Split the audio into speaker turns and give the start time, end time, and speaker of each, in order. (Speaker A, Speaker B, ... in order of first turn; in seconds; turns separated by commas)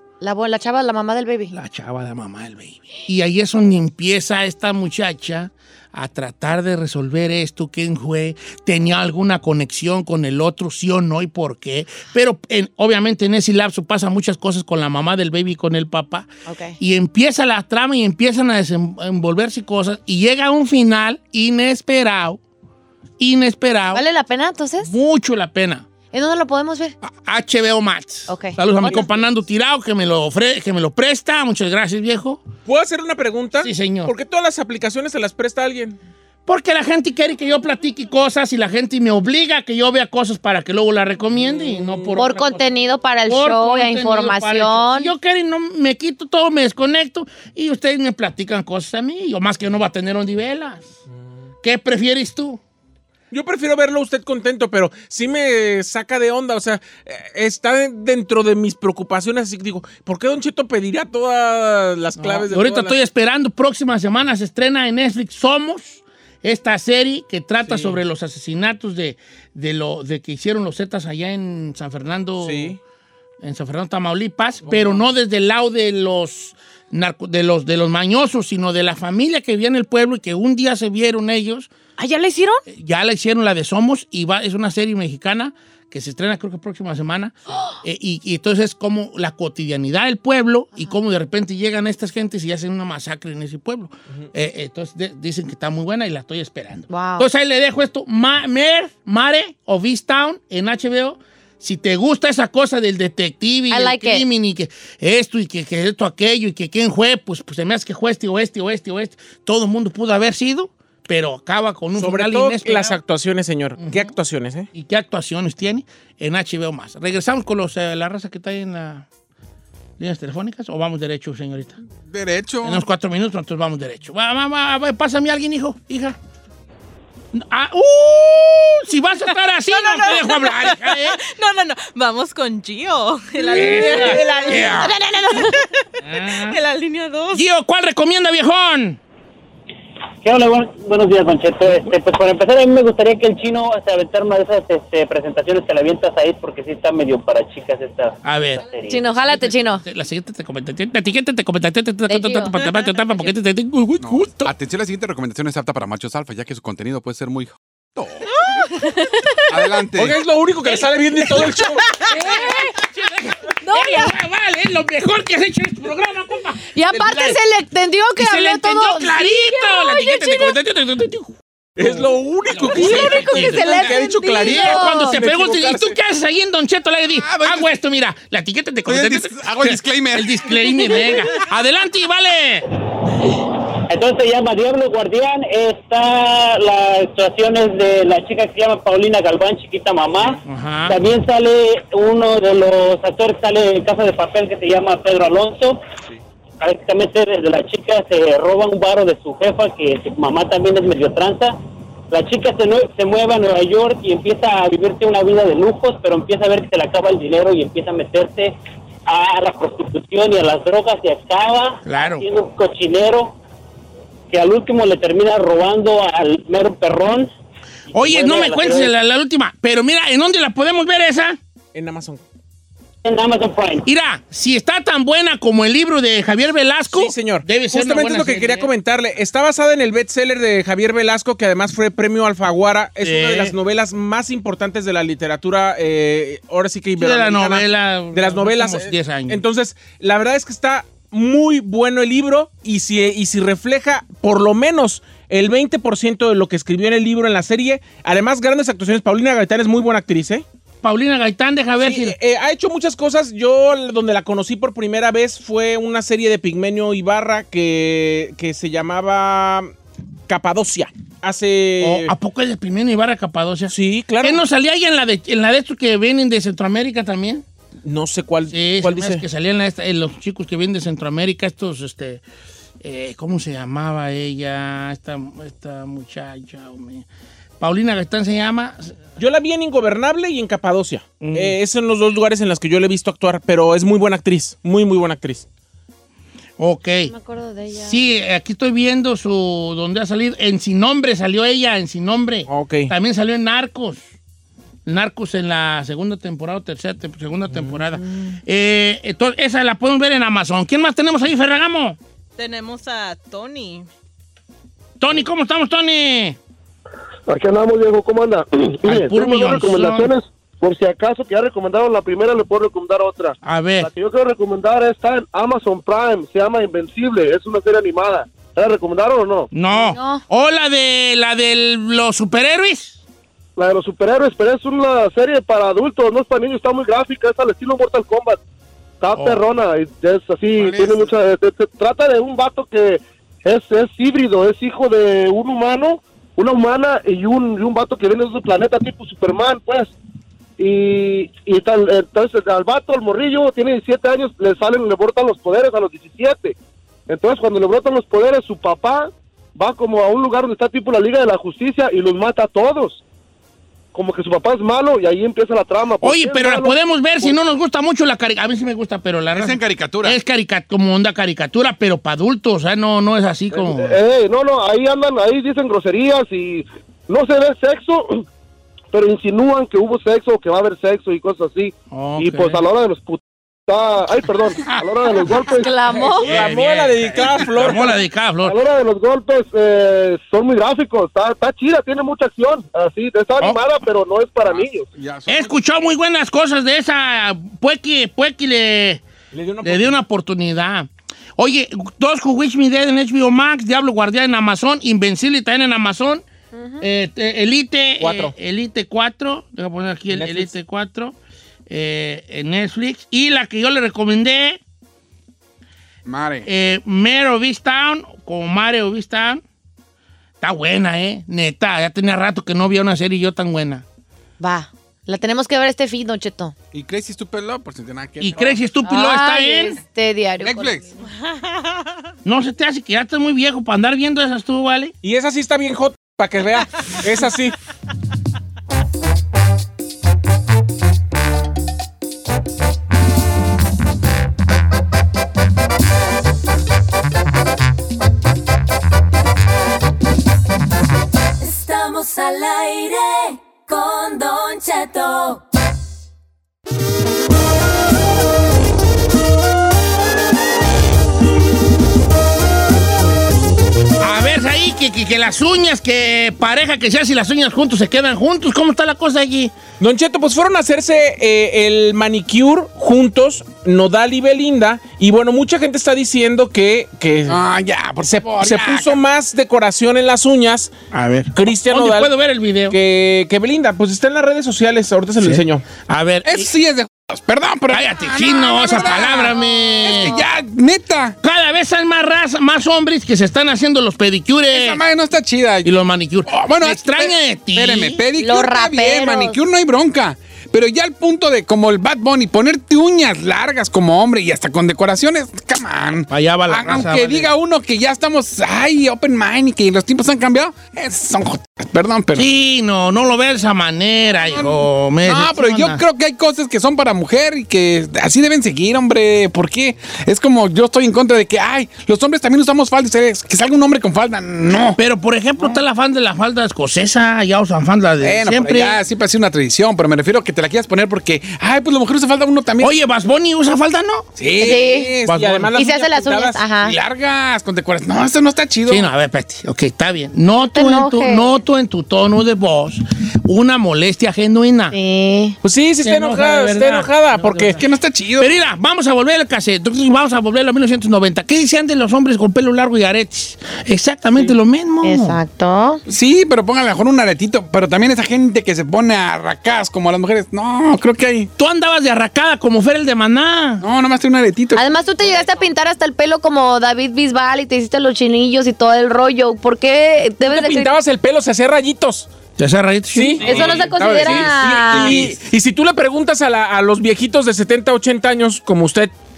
Speaker A: 0.2-1.5, Speaker B: 1.5-16.3, Speaker A: 16.4-16.8, Speaker B: 16.8-22.4, Speaker B: 23.2-24.0, Speaker A: 23.9-24.9, Speaker B: 24.8-25.9, Speaker A: 26.1-26.9, Speaker B: 27.2-32.4, Speaker A: 28.3-29.0, Speaker C: 32.6-36.0, Speaker B: 33.6-34.1, Speaker B: 36.5-42.6, Speaker C: 41.4-42.4, Speaker A: 42.1-45.1, Speaker B: 43.3-50.9, Speaker B: 51.6-52.6, Speaker C: 53.3-63.0, Speaker B: 62.2-72.8, Speaker C: 67.6-68.0, Speaker C: 72.4-72.8, Speaker B: 73.4-81.7, Speaker C: 74.6-75.0, Speaker A: 82.0-82.6, Speaker B: 82.7-113.0, Speaker A: 96.9-97.3, Speaker A: 103.7-104.2, Speaker C: 112.0-114.7, Speaker B: 113.8-114.1, Speaker B: 114.7-119.0, Speaker B: 120.0-121.8, Speaker D: 122.1-122.8, Speaker B: 122.6-126.2, Speaker B: 127.3-131.2, Speaker E: 129.7-137.4, Speaker B: 133.4-135.0, Speaker A: 133.5-135.5, Speaker B: 136.0-136.6, Speaker B: 137.3-139.0, Speaker F: 140.2-149.1, Speaker B: 148.2-154.5, Speaker A: 148.8-149.8, Speaker A: 152.1-152.5, Speaker D: 154.0-158.3, Speaker A: 158.7-159.4, Speaker D: 159.5-160.2, Speaker C: 160.0-161.9, Speaker A: 162.0-162.7, Speaker B: 162.1-167.4, Speaker A: 163.6-164.1, Speaker A: 166.7-170.6, Speaker B: 168.2-182.7, Speaker C: 171.8-175.9, Speaker A: 172.7-175.2, Speaker D: 177.2-177.7, Speaker D: 178.9-181.1, Speaker F: 183.9-195.8, Speaker B: 190.4-191.0, Speaker F: 196.6-201.6, Speaker F: 202.1-208.5, Speaker F: 209.1-213.3, Speaker B: 211.8-212.2, Speaker F: 214.3-217.3, Speaker F: 217.9-218.9, Speaker B: 217.9-221.4, Speaker C: 221.7-222.2, Speaker F: 223.0-223.8, Speaker B: 223.8-228.7, Speaker C: 226.9-250.4, Speaker B: 233.0-233.5, Speaker B: 237.0-239.4, Speaker B: 250.8-252.2, Speaker C: 251.8-259.7, Speaker C: 260.3-262.1, Speaker B: 261.8-267.4, Speaker C: 263.7-264.4, Speaker C: 267.8-269.2, Speaker B: 268.5-272.2, Speaker B: 272.8-277.1, Speaker B: 277.6-279.0, Speaker C: 279.2-285.4, Speaker B: 281.2-281.6, Speaker B: 286.6-287.1, Speaker A: 287.1-288.0, Speaker B: 287.7-294.0, Speaker C: 292.5-292.9, Speaker B: 294.9-302.0, Speaker C: 297.5-297.8, Speaker E: 302.4-303.9, Speaker B: 305.0-306.4, Speaker G: 307.3-319.5, Speaker B: 308.8-310.1, Speaker B: 313.4-313.9, Speaker B: 319.5-323.0, Speaker A: 319.7-320.2, Speaker G: 323.6-328.4, Speaker G: 329.0-339.9, Speaker B: 329.1-329.4, Speaker D: 330.6-331.1, Speaker G: 340.6-346.6, Speaker G: 347.1-353.0, Speaker G: 353.9-357.3, Speaker B: 356.0-364.0, Speaker D: 359.3-360.2, Speaker G: 363.5-368.2, Speaker G: 368.9-376.1, Speaker B: 371.9-372.6, Speaker A: 375.5-376.3, Speaker B: 375.9-378.6, Speaker C: 376.2-377.9, Speaker G: 378.4-384.9, Speaker D: 384.4-385.5, Speaker B: 385.3-389.0, Speaker C: 389.3-390.0, Speaker B: 389.6-396.2, Speaker A: 396.5-396.8, Speaker B: 396.8-401.1, Speaker C: 398.0-398.3, Speaker C: 400.1-400.5, Speaker B: 401.7-404.6, Speaker D: 406.1-406.5, Speaker B: 406.4-409.4, Speaker B: 410.4-413.8, Speaker A: 414.4-416.5, Speaker D: 416.7-418.6, Speaker B: 418.2-419.8, Speaker A: 418.9-420.8, Speaker D: 420.4-420.9, Speaker E: 421.2-421.8, Speaker B: 422.2-424.9, Speaker C: 425.0-427.5, Speaker H: 441.4-445.4, Speaker B: 454.0-459.5, Speaker C: 459.8-467.4, Speaker D: 467.3-469.0, Speaker C: 468.1-470.7, Speaker B: 470.9-472.8, Speaker C: 471.3-472.1, Speaker C: 472.7-475.6, Speaker B: 475.2-476.5, Speaker D: 476.2-481.1, Speaker B: 477.7-480.2, Speaker B: 481.2-484.8, Speaker D: 484.5-485.7, Speaker B: 485.6-488.0, Speaker D: 486.2-502.3, Speaker A: 488.1-489.4, Speaker B: 496.1-497.3, Speaker B: 502.1-505.8, Speaker D: 504.3-514.8, Speaker B: 514.8-518.8, Speaker D: 518.0-522.7, Speaker B: 522.6-524.1, Speaker D: 524.2-525.2, Speaker A: 524.4-524.9, Speaker C: 525.0-526.4, Speaker B: 525.0-525.5, Speaker A: 525.5-526.8, Speaker D: 526.6-528.9, Speaker B: 528.7-534.8, Speaker A: 530.4-531.3, Speaker A: 534.7-535.4, Speaker C: 535.4-537.6, Speaker B: 535.8-537.6, Speaker D: 537.5-538.3, Speaker B: 538.2-545.2, Speaker A: 544.8-545.8, Speaker D: 545.9-551.3, Speaker B: 551.4-553.6, Speaker D: 553.6-554.6, Speaker A: 554.5-560.7, Speaker C: 560.2-562.1, Speaker B: 562.4-563.2, Speaker C: 562.9-568.9, Speaker D: 563.2-565.2, Speaker A: 563.2-565.0